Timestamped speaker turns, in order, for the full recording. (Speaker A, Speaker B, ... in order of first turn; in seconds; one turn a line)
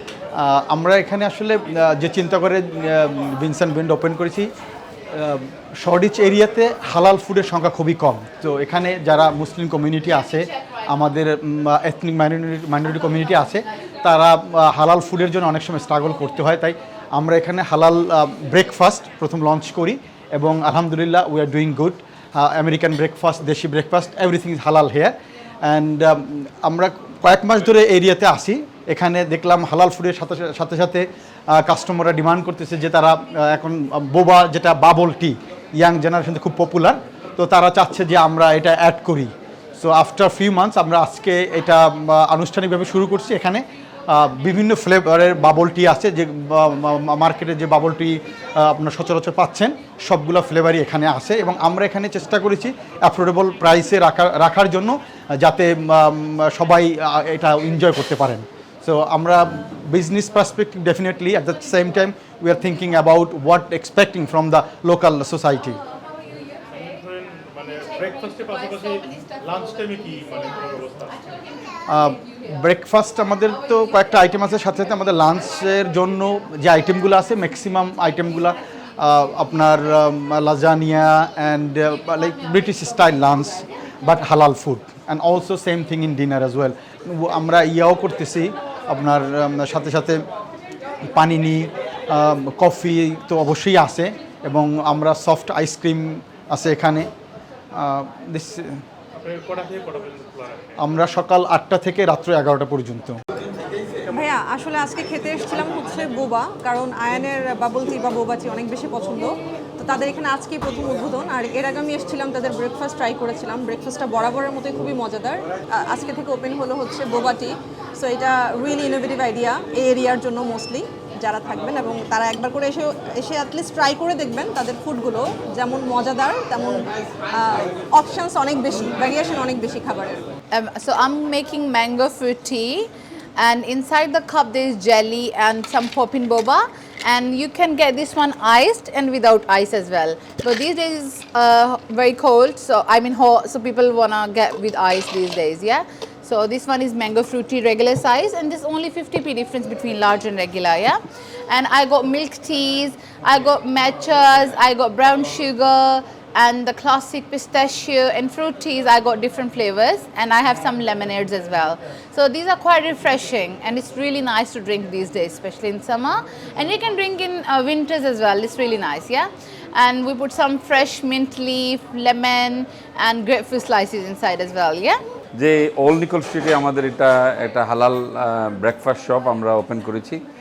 Speaker A: 0.3-4.5
Speaker A: 5.1-65.8
Speaker B: 66.8-71.2
Speaker A: 71.9-90.2
Speaker A: 91.1-97.1
Speaker A: 97.8-98.8
Speaker B: 99.2-100.5
Speaker A: 100.8-103.2
Speaker C: 104.1-130.2
Speaker D: 130.5-175.0
Speaker E: 175.4-180.2